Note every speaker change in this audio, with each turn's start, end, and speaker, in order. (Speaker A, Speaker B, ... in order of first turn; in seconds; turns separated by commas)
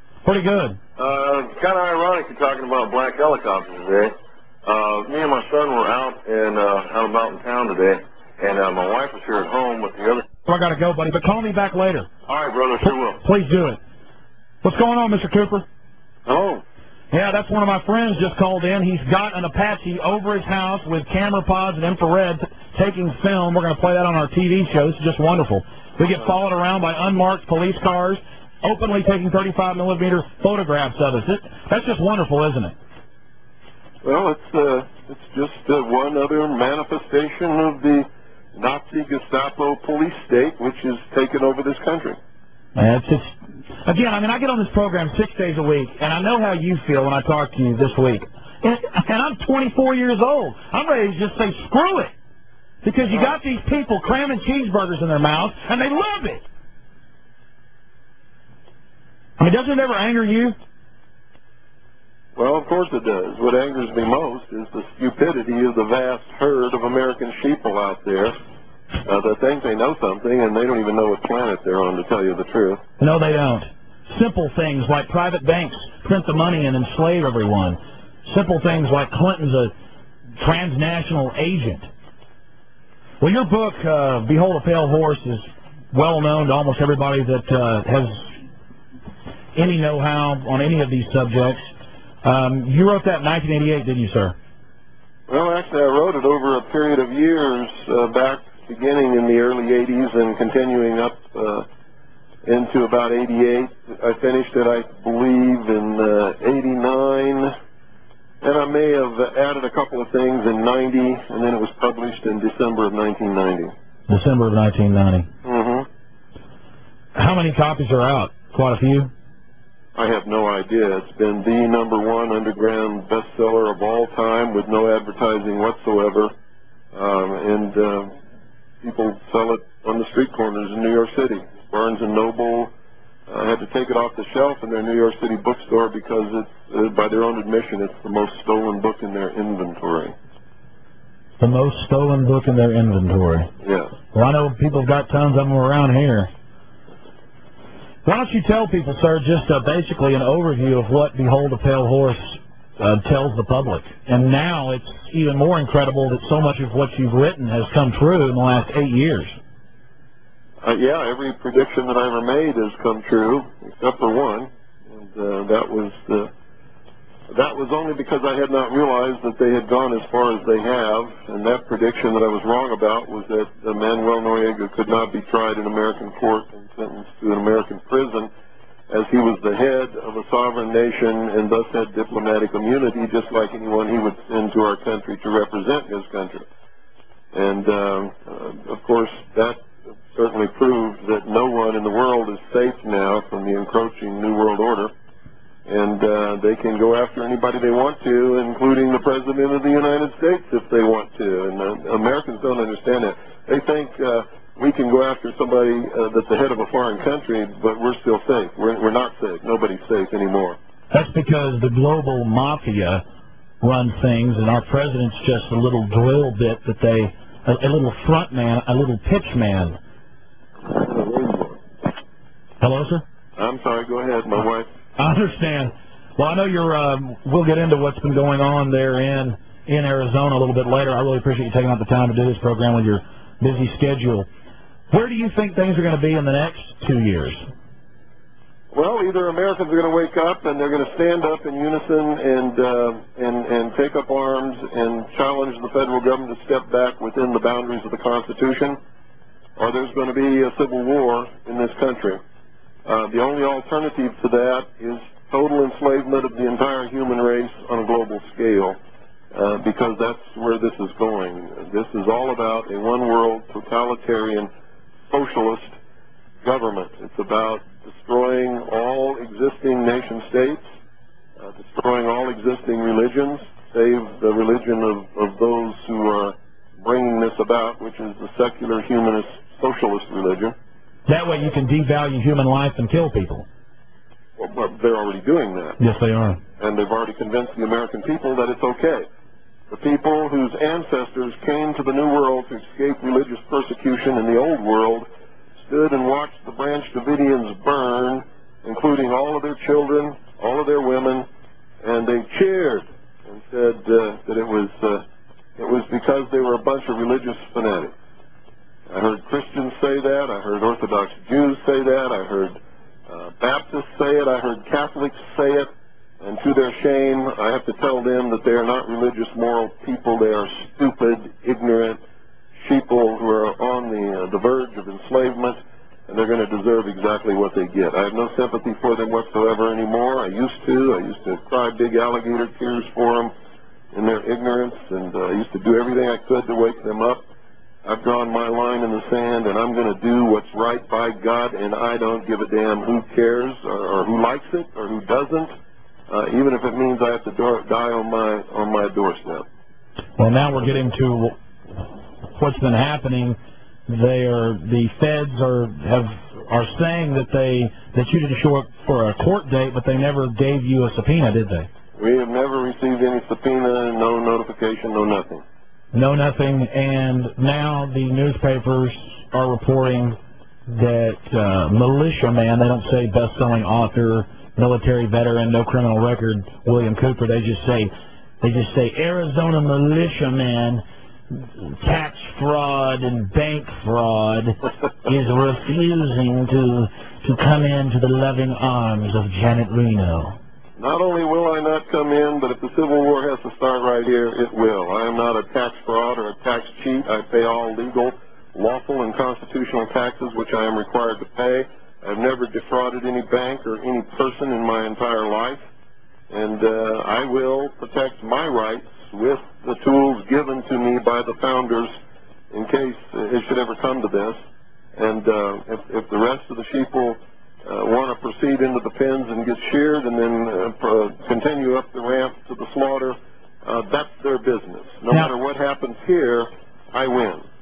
Speaker A: 0.2-0.8, Speaker B: 1.0-10.2, Speaker A: 10.4-12.1, Speaker B: 12.2-13.2, Speaker A: 12.8-13.8, Speaker A: 14.6-15.7, Speaker B: 16.2-16.6, Speaker A: 17.1-32.7, Speaker C: 34.0-42.2, Speaker A: 42.7-52.1, Speaker A: 52.8-56.4, Speaker A: 59.4-60.5, Speaker C: 62.3-68.3, Speaker C: 69.0-72.8, Speaker A: 73.0-79.7, Speaker A: 80.4-81.9, Speaker A: 83.2-88.3, Speaker A: 89.5-91.6, Speaker A: 92.2-94.3, Speaker C: 95.3-101.7, Speaker C: 102.4-107.5, Speaker C: 108.4-113.7, Speaker A: 114.1-115.3, Speaker C: 115.4-115.9, Speaker A: 117.1-119.1, Speaker C: 119.9-126.3, Speaker C: 126.9-128.1, Speaker C: 128.8-132.7, Speaker C: 133.3-140.1, Speaker A: 141.4-143.5, Speaker C: 143.6-143.9, Speaker A: 144.1-146.3, Speaker A: 148.0-159.3, Speaker C: 160.6-166.3, Speaker C: 167.3-178.3, Speaker C: 178.9-186.5, Speaker C: 187.3-194.9, Speaker C: 195.7-210.6, Speaker A: 210.9-213.0, Speaker A: 213.6-219.8, Speaker C: 221.0-221.5, Speaker A: 222.6-223.0, Speaker C: 223.4-224.7, Speaker A: 225.0-234.3, Speaker A: 234.9-237.4, Speaker C: 238.7-248.8, Speaker C: 249.6-252.2, Speaker C: 252.8-258.8, Speaker C: 259.3-264.5, Speaker C: 265.1-265.8, Speaker C: 266.4-270.6, Speaker C: 271.4-280.5, Speaker A: 281.1-283.5, Speaker C: 284.4-285.8, Speaker A: 285.8-286.4, Speaker C: 286.6-289.1, Speaker C: 289.7-295.1, Speaker C: 295.6-301.3, Speaker C: 301.8-305.0, Speaker C: 305.6-307.9, Speaker C: 308.9-312.6, Speaker C: 313.1-322.0, Speaker C: 322.6-333.3, Speaker C: 333.9-337.2, Speaker C: 337.8-345.5, Speaker C: 346.1-349.4, Speaker A: 350.2-361.7, Speaker C: 362.0-365.4, Speaker A: 365.9-370.2, Speaker A: 370.7-390.4, Speaker C: 390.8-405.6, Speaker C: 406.3-411.9, Speaker C: 412.5-414.4, Speaker C: 414.9-427.4